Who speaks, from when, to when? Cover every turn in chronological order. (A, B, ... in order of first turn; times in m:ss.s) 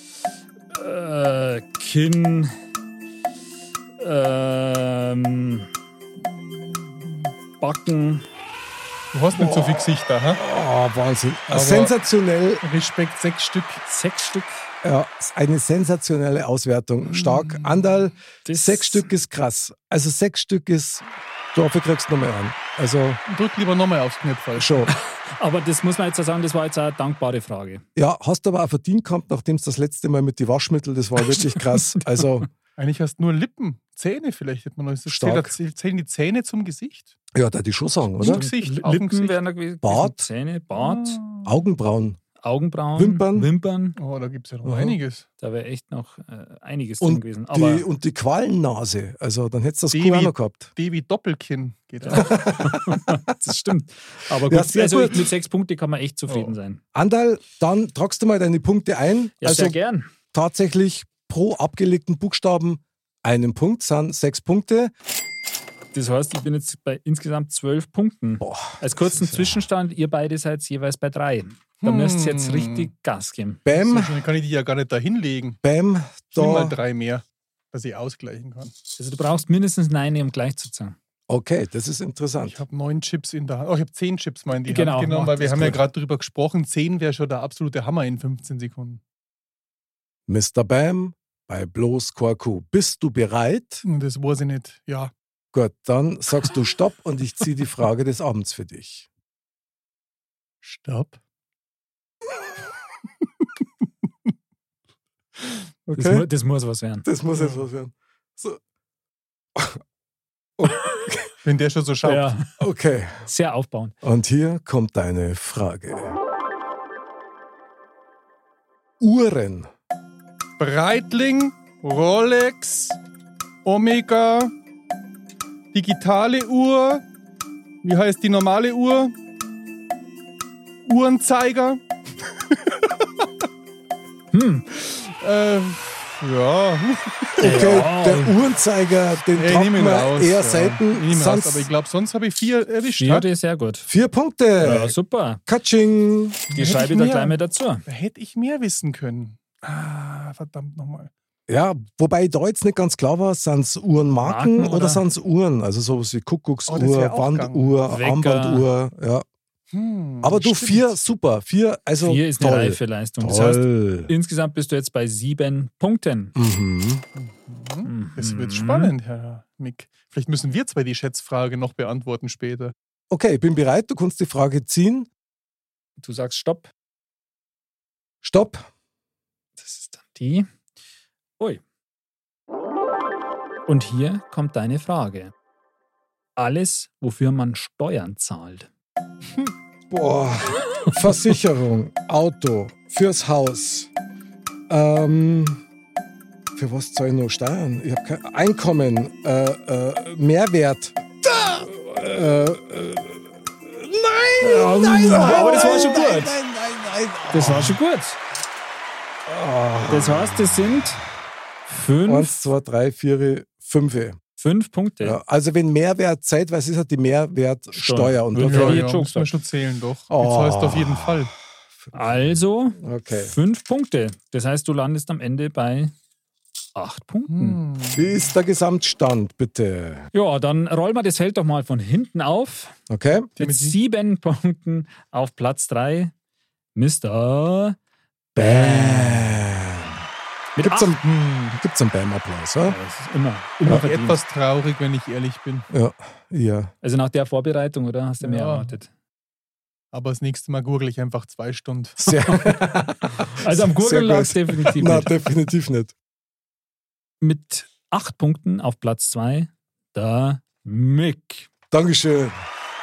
0:00.7-0:02.5 A
0:04.0-0:05.7 A
0:07.6-0:08.2 A
0:09.1-0:10.4 B
0:09.4-0:12.6 C
0:11.5-0:11.9 B
0:12.6-0:13.8 B
0:13.9-0:14.6 A
0:14.8-0:23.2 C
0:17.0-0:18.0 B
0:18.4-0:19.0 A
0:23.3-0:24.9 B
0:24.6-0:24.9 C
0:25.4-0:27.8 A
0:28.0-0:32.5 C
0:32.8-0:37.1 B
0:35.1-0:35.6 C
0:37.3-0:38.4 C
0:38.2-0:39.4 B
0:38.2-0:41.2 A
0:39.8-0:40.3 C
0:40.7-0:41.5 B
0:41.4-0:42.2 C
0:42.4-0:44.0 A
0:43.0-0:43.5 C
0:44.0-0:45.2 B
0:44.6-0:45.0 C
0:45.4-0:47.8 A
0:47.0-0:50.7 C
0:49.9-0:52.3 B
0:52.0-0:56.8 A
0:52.1-0:53.2 C
0:54.4-0:55.3 C
0:56.3-0:56.5 B
0:56.9-0:59.8 C
0:59.4-1:00.1 A
1:00.3-1:04.9 C
1:05.9-1:13.6 A
1:08.4-1:09.6 C
1:11.8-1:12.9 B
1:13.6-1:14.2 C
1:13.7-1:15.6 B
1:15.6-1:16.8 C
1:16.3-1:18.8 B
1:19.0-1:20.9 A
1:21.3-1:22.6 C
1:22.4-1:29.0 B
1:24.7-1:25.8 A
1:30.3-1:33.8 C
1:33.8-1:35.1 B
1:35.5-1:39.1 C
1:40.6-1:41.2 B
1:45.9-1:46.2 C
1:46.0-1:47.0 A
1:47.0-1:48.6 C
1:47.3-1:47.6 B
1:50.6-1:51.3 C
1:51.4-1:52.4 B
1:52.0-1:52.5 A
1:52.6-1:53.3 C
1:53.2-1:53.9 A
1:54.0-1:56.2 C
1:59.0-1:59.7 C
2:00.6-2:03.0 B
2:03.6-2:04.5 B
2:05.7-2:07.0 B
2:07.8-2:09.1 B
2:10.8-2:13.3 B
2:14.3-2:14.7 A
2:14.7-2:17.7 B
2:17.4-2:21.7 C
2:17.4-2:18.3 A
2:19.3-2:23.3 B
2:23.0-2:23.9 A
2:23.9-2:24.9 C
2:24.6-2:25.4 A
2:25.4-2:26.4 C
2:26.5-2:31.1 B
2:26.5-2:27.8 A
2:31.5-2:39.2 C
2:34.2-2:35.0 A
2:36.7-2:37.8 B
2:37.9-2:38.7 A
2:39.7-2:41.0 B
2:40.2-2:44.1 C
2:42.0-2:46.3 A
2:46.3-2:47.0 C
2:47.1-2:52.7 B
2:47.8-2:48.9 A
2:53.1-2:55.1 C
2:56.0-2:56.7 A
2:58.2-2:58.7 C
2:59.6-3:00.5 A
3:03.7-3:05.3 A
3:06.4-3:08.7 A
3:09.9-3:13.9 C
3:14.7-3:15.6 C
3:16.6-3:27.7 C
3:24.4-3:26.4 A
3:27.3-3:28.2 A
3:29.2-3:30.6 C
3:29.9-3:31.0 A
3:31.7-3:32.3 A
3:32.0-3:34.2 C
3:34.4-3:35.2 A
3:35.0-3:38.8 C
3:37.7-3:39.3 A
3:38.4-3:41.3 B
3:40.1-3:41.2 C
3:41.9-3:45.9 A
3:42.8-3:43.3 C
3:46.7-3:47.6 A
3:47.3-3:48.1 B
3:47.9-3:50.1 C
3:50.1-3:52.7 A
3:52.9-3:53.3 C
3:53.4-3:53.8 B
3:53.4-3:56.1 A
3:56.7-3:57.8 A
3:58.4-3:59.9 C
3:58.4-3:59.4 A
4:00.6-4:02.8 C
4:00.6-4:01.0 A
4:01.0-4:01.6 B
4:02.6-4:04.2 A
4:03.6-4:05.7 B
4:05.7-4:06.7 C
4:06.8-4:08.9 A
4:08.2-4:08.7 B
4:09.9-4:12.0 B
4:12.0-4:15.9 C
4:12.3-4:12.8 A
4:13.4-4:15.1 A
4:17.2-4:21.5 A
4:21.7-4:22.3 C